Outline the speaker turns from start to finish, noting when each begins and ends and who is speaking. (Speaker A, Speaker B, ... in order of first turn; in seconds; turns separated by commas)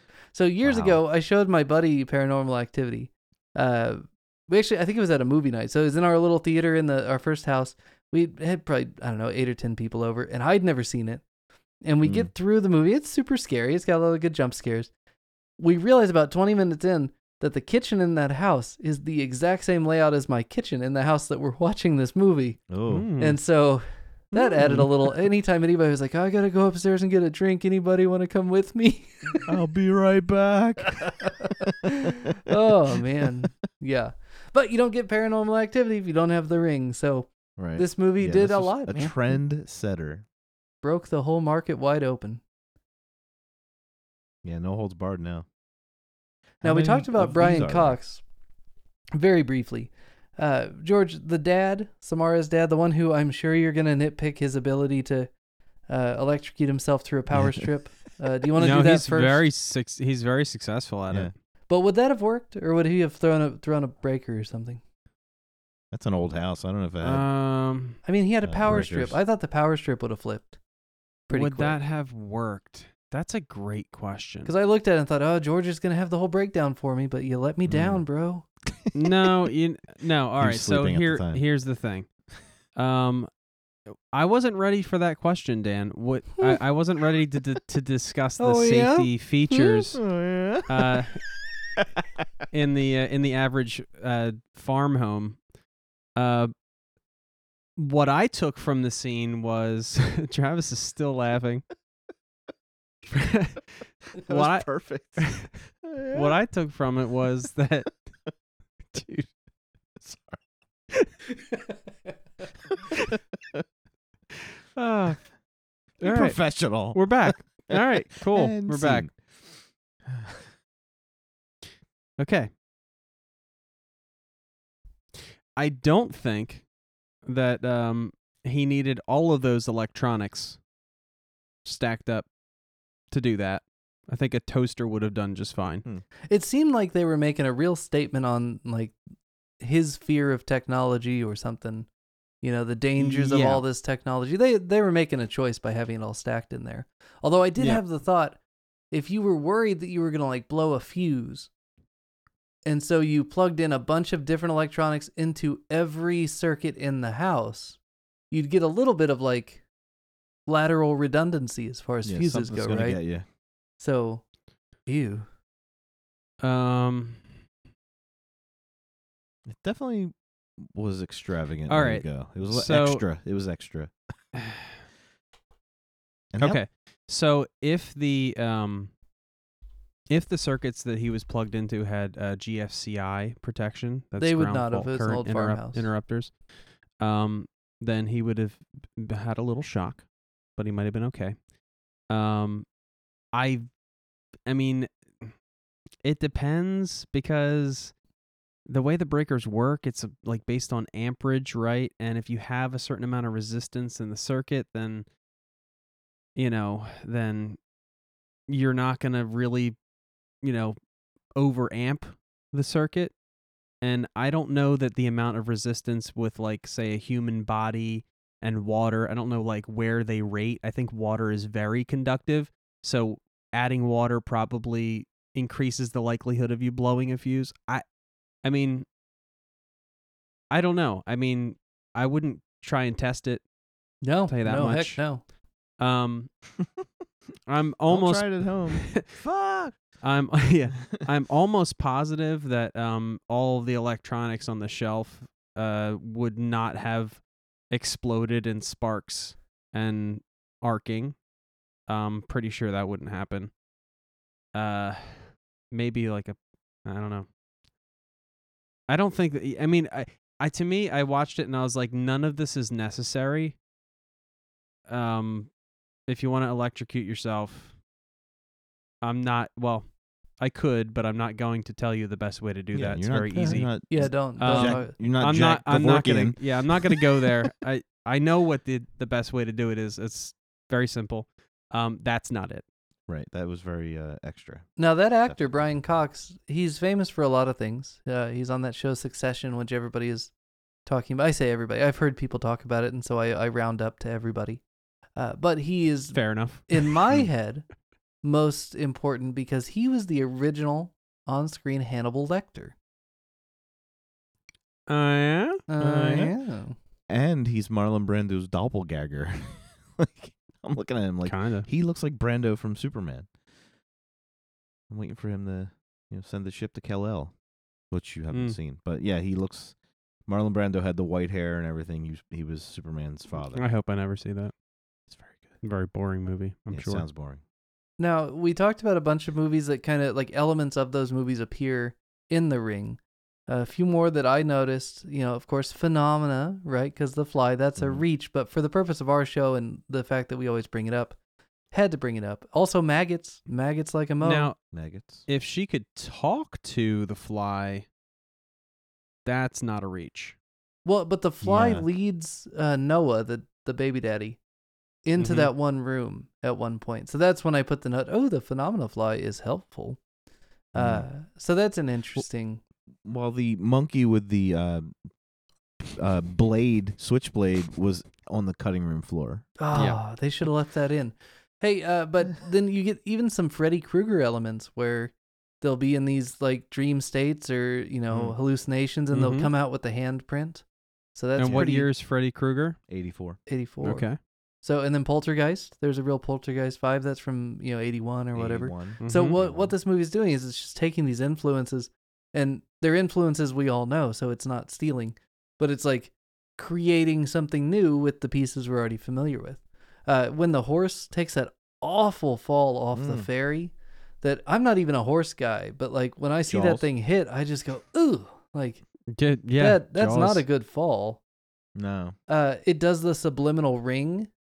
Speaker A: 0.3-11.2, Speaker B: 0.6-1.0, Speaker A: 11.8-14.9, Speaker B: 12.0-12.3, Speaker A: 15.6-22.6, Speaker B: 22.7-23.1, Speaker C: 22.9-23.4, Speaker A: 23.2-29.5, Speaker B: 24.3-24.9, Speaker B: 29.5-32.5, Speaker A: 31.1-39.1, Speaker B: 37.6-40.3, Speaker A: 40.8-42.4, Speaker B: 44.4-45.5, Speaker B: 46.6-48.0, Speaker A: 46.6-48.2, Speaker A: 49.2-55.3, Speaker A: 55.9-59.5, Speaker C: 58.6-61.3, Speaker A: 61.7-64.8, Speaker B: 65.9-67.2, Speaker C: 67.0-68.0, Speaker A: 68.0-70.6, Speaker B: 68.4-69.2, Speaker A: 71.3-71.8, Speaker C: 71.3-74.5, Speaker A: 74.5-78.5, Speaker B: 77.7-78.0, Speaker C: 78.9-82.1, Speaker B: 80.4-81.4, Speaker C: 82.8-83.3, Speaker C: 83.9-90.1, Speaker A: 88.4-89.1, Speaker B: 89.9-91.1, Speaker C: 90.7-91.2, Speaker C: 92.5-95.4, Speaker C: 96.2-96.5, Speaker C: 97.8-101.7, Speaker C: 103.1-105.5, Speaker B: 104.2-106.4, Speaker C: 106.1-108.1, Speaker C: 108.9-109.3, Speaker B: 110.0-110.4, Speaker C: 114.8-115.3, Speaker C: 116.0-119.1, Speaker B: 116.0-119.5, Speaker B: 120.1-120.5, Speaker C: 122.2-122.5, Speaker C: 125.6-126.7, Speaker C: 127.2-130.6, Speaker C: 131.7-132.3, Speaker C: 133.1-135.8, Speaker A: 136.3-138.9, Speaker A: 139.6-141.9, Speaker A: 142.4-148.4, Speaker C: 143.0-143.6, Speaker A: 148.9-151.5, Speaker A: 152.7-157.8, Speaker A: 158.3-159.6, Speaker A: 160.5-163.0, Speaker B: 162.0-163.2, Speaker A: 163.8-164.2, Speaker A: 164.9-165.3, Speaker C: 166.4-167.2, Speaker B: 169.5-173.9, Speaker C: 171.7-173.0, Speaker C: 174.3-174.8, Speaker B: 176.3-176.6, Speaker C: 176.4-178.9, Speaker C: 180.1-186.4, Speaker A: 184.2-185.9, Speaker C: 187.0-191.4, Speaker C: 192.1-192.7, Speaker C: 193.3-193.7, Speaker C: 194.5-195.3, Speaker C: 196.0-198.0, Speaker C: 198.7-205.1, Speaker C: 206.4-207.6, Speaker C: 208.5-209.8, Speaker C: 210.4-210.8, Speaker C: 211.4-213.1, Speaker C: 213.8-227.8, Speaker C: 228.4-228.9, Speaker C: 230.5-233.4, Speaker A: 234.0-235.2, Speaker C: 234.3-235.1, Speaker C: 235.8-236.3, Speaker C: 237.5-239.2, Speaker B: 237.9-239.8, Speaker C: 240.0-251.2, Speaker C: 251.9-253.5, Speaker C: 254.5-257.3, Speaker C: 258.9-263.6, Speaker C: 264.9-265.5, Speaker C: 266.1-267.8, Speaker C: 269.0-269.9, Speaker C: 270.4-273.8, Speaker B: 272.7-277.1, Speaker A: 273.4-274.9, Speaker C: 274.4-282.6, Speaker B: 283.1-285.6, Speaker A: 284.8-290.3, Speaker A: 290.9-294.6, Speaker A: 295.2-297.7, Speaker C: 296.1-296.9, Speaker A: 298.2-302.7, Speaker C: 304.9-306.2, Speaker A: 305.7-306.8, Speaker B: 305.9-306.3, Speaker B: 307.1-313.3, Speaker C: 311.2-311.7, Speaker B: 314.9-317.3, Speaker B: 317.9-319.8, Speaker C: 318.3-318.6, Speaker B: 320.3-323.7, Speaker C: 323.5-324.5, Speaker B: 325.1-325.6, Speaker C: 325.6-327.1, Speaker B: 326.7-327.4, Speaker A: 328.0-341.2, Speaker B: 337.8-338.0, Speaker A: 341.7-344.5, Speaker C: 344.2-344.6, Speaker B: 344.7-345.3, Speaker C: 345.3-347.9, Speaker C: 349.2-350.4, Speaker A: 350.9-354.4, Speaker B: 351.4-351.9, Speaker A: 355.1-360.0, Speaker C: 355.2-355.5, Speaker A: 360.7-362.6, Speaker B: 360.8-361.1, Speaker B: 363.1-364.9, Speaker B: 365.8-369.5, Speaker A: 369.6-381.9, Speaker C: 369.7-370.0, Speaker B: 378.1-378.4, Speaker C: 379.1-379.5, Speaker C: 381.4-382.8, Speaker B: 381.4-381.7, Speaker B: 382.9-383.4, Speaker A: 383.5-384.1, Speaker C: 383.8-384.2, Speaker A: 384.6-408.8, Speaker B: 388.3-389.7, Speaker C: 389.0-389.4, Speaker B: 402.9-403.3, Speaker B: 406.5-406.9, Speaker C: 409.1-410.4, Speaker A: 409.6-411.2, Speaker B: 411.8-412.2, Speaker A: 412.3-414.3